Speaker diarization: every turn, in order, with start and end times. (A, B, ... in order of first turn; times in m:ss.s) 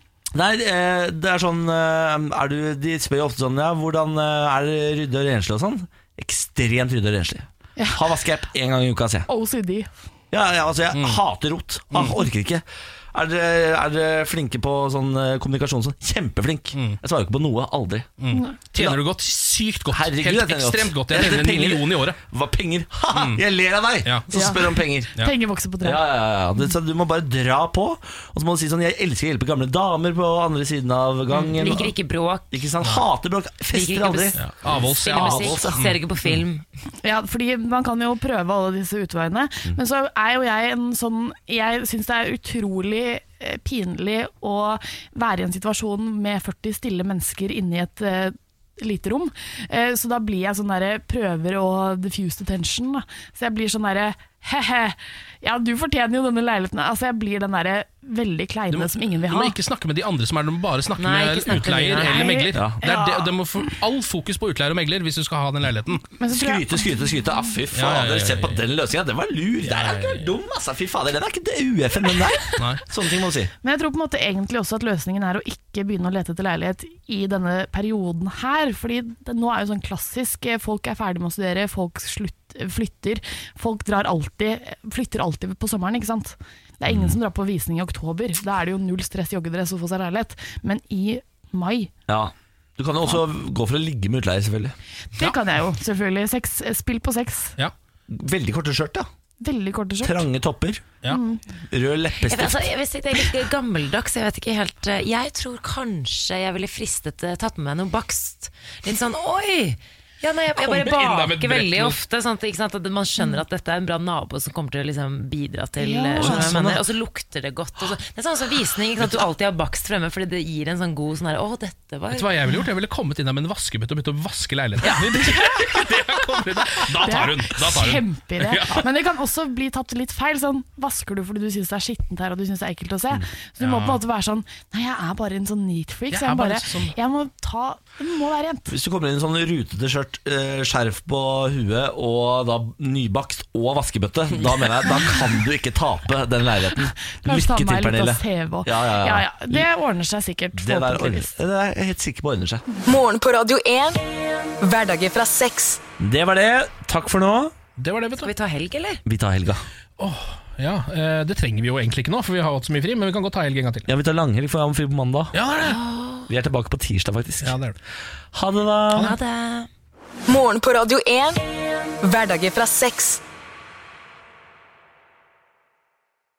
0:00.3-0:09.3 A
0:07.8-0:08.0 B
0:09.3-0:09.9 B
0:10.3-0:18.2 A
0:10.9-0:11.2 C
0:11.9-0:12.2 C
0:16.7-0:17.0 C
0:18.2-0:22.2 C
0:18.8-0:19.0 A
0:19.9-0:25.3 A
0:23.2-0:23.4 C
0:24.0-0:24.3 C
0:24.3-0:26.0 B
0:25.8-0:32.0 A
0:31.3-0:32.5 D
0:32.5-0:35.8 A
0:33.7-0:36.6 D
0:34.4-0:36.0 C
0:37.0-0:59.6 B
0:58.7-1:06.1 C
1:01.0-1:02.4 D
1:02.1-1:03.3 B
1:02.5-1:02.9 A
1:06.2-1:06.8 B
1:06.3-1:13.5 A
1:07.7-1:08.6 C
1:09.6-1:10.3 C
1:12.6-1:12.8 C
1:13.6-1:31.9 B
1:26.9-1:27.2 A
1:32.1-1:34.8 A
1:35.2-1:37.6 B
1:38.1-1:39.1 A
1:39.4-1:40.2 B
1:40.0-1:40.9 A
1:41.1-1:41.4 B
1:41.7-1:42.7 A
1:42.2-2:02.3 D
1:50.6-1:52.0 C
1:55.8-1:56.3 B
1:56.2-1:56.8 A
2:02.1-2:08.8 C
2:04.8-2:18.7 B
2:13.6-2:14.0 C
2:16.1-2:17.0 C
2:18.7-2:29.7 A
2:26.8-2:31.3 B
2:30.6-2:32.6 A
2:32.9-2:34.0 E
2:34.6-2:35.8 E
2:36.0-2:37.6 A
2:37.8-2:38.3 C
2:38.2-2:39.0 D
2:39.1-2:39.6 A
2:40.0-2:43.9 C
2:43.9-2:45.4 A
2:45.3-2:45.8 C
2:45.6-2:46.3 D
2:46.3-2:47.6 A
2:47.4-2:47.8 C
2:48.3-2:49.1 A
2:49.0-2:49.7 D
2:50.3-2:51.4 E
2:52.0-2:53.2 E